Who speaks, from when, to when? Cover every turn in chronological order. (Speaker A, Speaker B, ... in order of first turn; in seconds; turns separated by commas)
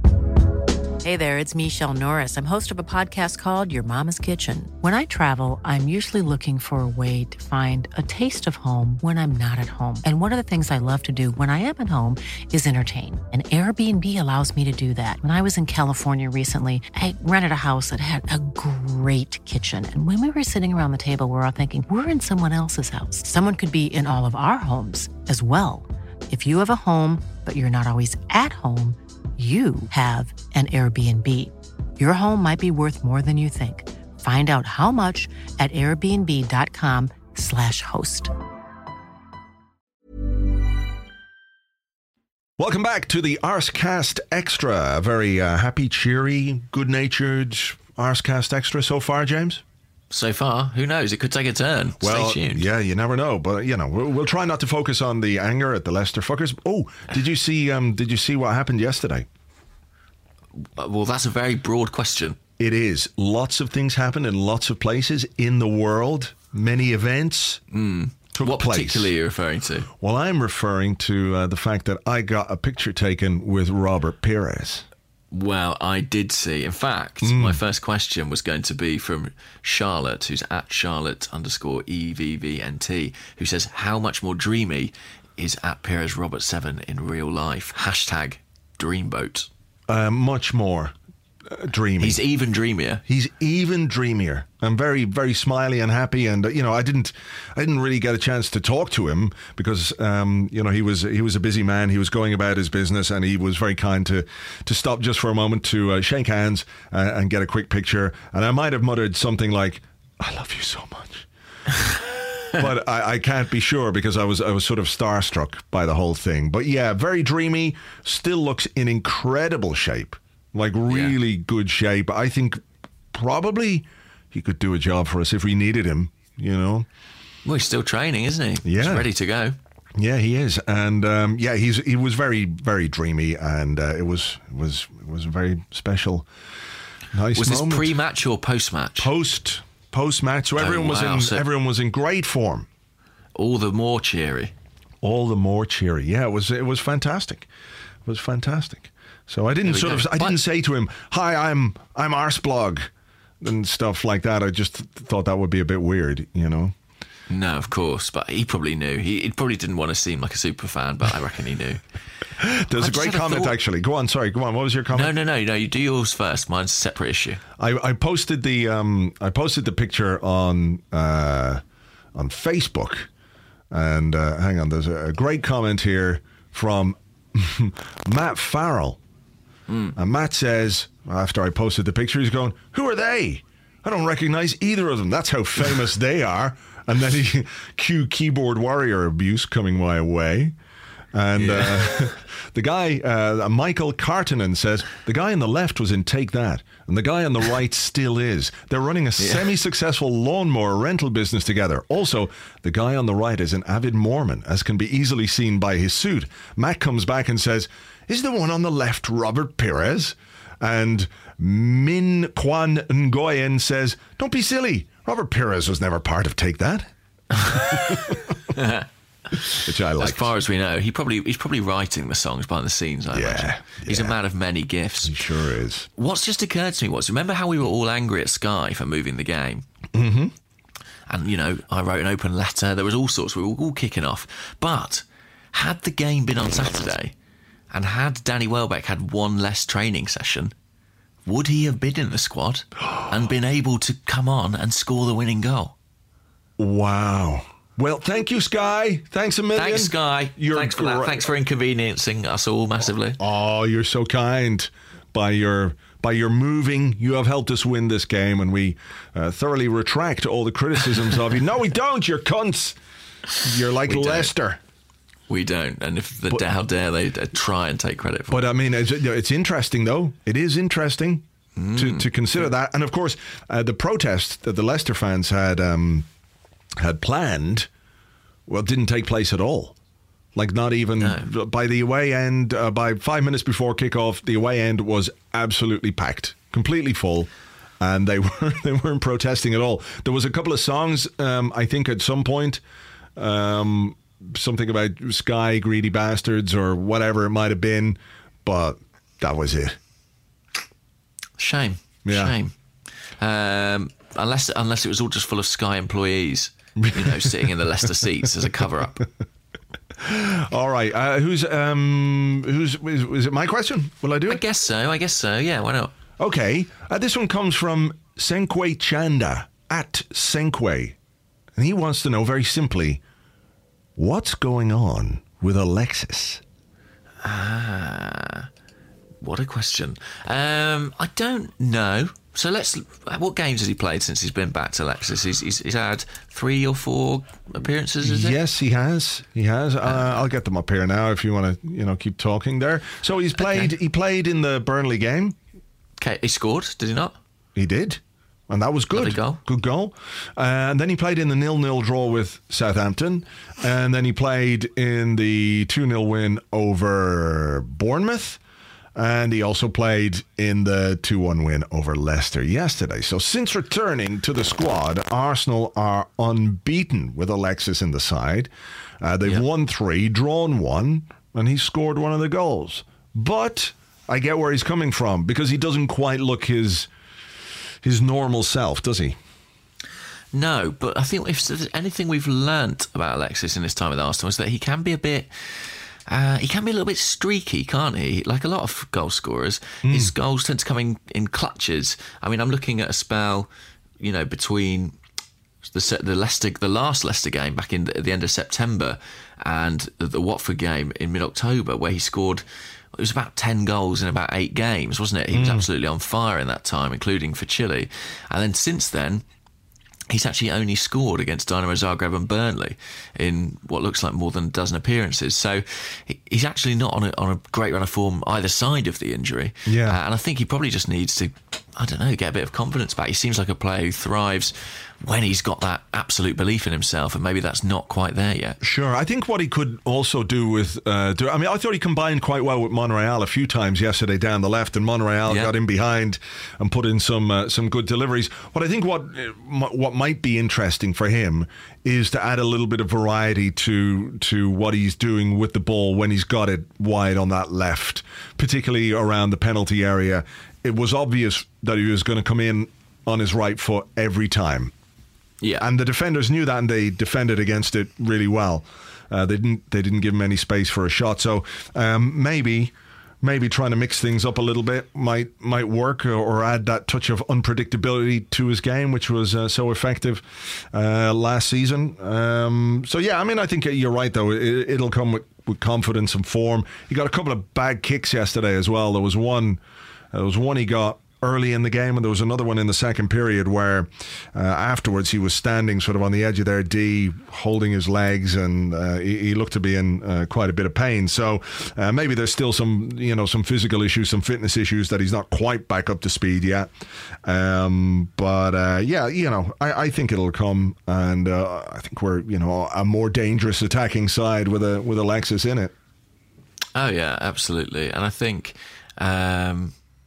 Speaker A: 1.0-38.3, Speaker B: 42.6-49.6, Speaker C: 50.1-52.7, Speaker B: 52.0-59.3, Speaker C: 60.6-62.4, Speaker B: 62.6-67.6, Speaker C: 67.7-69.9, Speaker B: 68.3-69.1, Speaker B: 70.0-74.9, Speaker C: 75.3-89.5, Speaker B: 77.2-77.6, Speaker B: 89.9-91.0, Speaker B: 91.5-92.2, Speaker C: 92.0-93.0, Speaker B: 93.1-111.3, Speaker B: 112.5-126.9, Speaker C: 120.9-121.2, Speaker C: 127.5-129.6, Speaker B: 128.6-129.1, Speaker B: 130.0-136.3, Speaker B: 137.1-137.9, Speaker C: 137.3-139.1, Speaker B: 139.0-142.7, Speaker C: 140.6-141.5, Speaker C: 143.3-144.5, Speaker B: 145.0-147.5, Speaker B: 148.1-152.9, Speaker C: 149.7-150.4, Speaker B: 153.4-156.8, Speaker C: 157.3-161.8, Speaker B: 162.4-165.1, Speaker C: 162.8-163.6, Speaker C: 164.9-167.4, Speaker B: 167.6-171.6, Speaker B: 172.1-173.1, Speaker B: 173.7-179.0, Speaker C: 179.7-180.0, Speaker B: 180.0-190.6, Speaker B: 191.1-218.4, Speaker C: 191.3-192.1, Speaker C: 199.2-199.5, Speaker C: 217.4-218.9, Speaker C: 219.4-225.2, Speaker B: 219.4-220.4, Speaker B: 223.1-224.2, Speaker B: 225.0-225.9, Speaker C: 226.0-229.7, Speaker B: 229.9-230.3, Speaker C: 231.1-237.1, Speaker C: 237.7-240.5, Speaker C: 241.3-245.8, Speaker B: 246.6-251.3, Speaker C: 249.5-253.2, Speaker B: 253.2-262.8, Speaker B: 263.4-264.6, Speaker C: 263.9-264.3, Speaker C: 265.3-268.4, Speaker B: 268.3-276.1, Speaker C: 271.6-272.1, Speaker B: 276.8-277.7, Speaker B: 278.5-279.8, Speaker B: 280.4-292.6, Speaker C: 281.0-281.3, Speaker B: 293.2-299.8, Speaker C: 301.4-302.5, Speaker B: 302.1-302.4, Speaker C: 303.2-309.1, Speaker B: 306.8-307.5, Speaker B: 310.0-314.4, Speaker C: 314.3-315.9, Speaker B: 316.2-321.0, Speaker B: 321.6-323.0, Speaker B: 324.0-326.4, Speaker C: 327.2-328.5, Speaker C: 329.2-338.4, Speaker B: 338.0-345.4, Speaker C: 339.9-340.2, Speaker C: 343.4-343.7, Speaker C: 346.0-347.2, Speaker B: 347.6-358.4, Speaker C: 348.9-349.4, Speaker B: 358.9-376.9, Speaker B: 377.8-379.2, Speaker C: 380.3-393.5, Speaker B: 389.8-390.1, Speaker C: 394.0-395.0, Speaker C: 395.7-409.2, Speaker B: 405.3-405.7, Speaker C: 410.1-428.6, Speaker B: 419.7-420.0, Speaker B: 428.6-454.7, Speaker C: 435.3-435.5, Speaker C: 455.4-455.7, Speaker B: 455.6-479.6, Speaker B: 480.1-496.7, Speaker B: 497.2-505.7, Speaker C: 506.8-509.7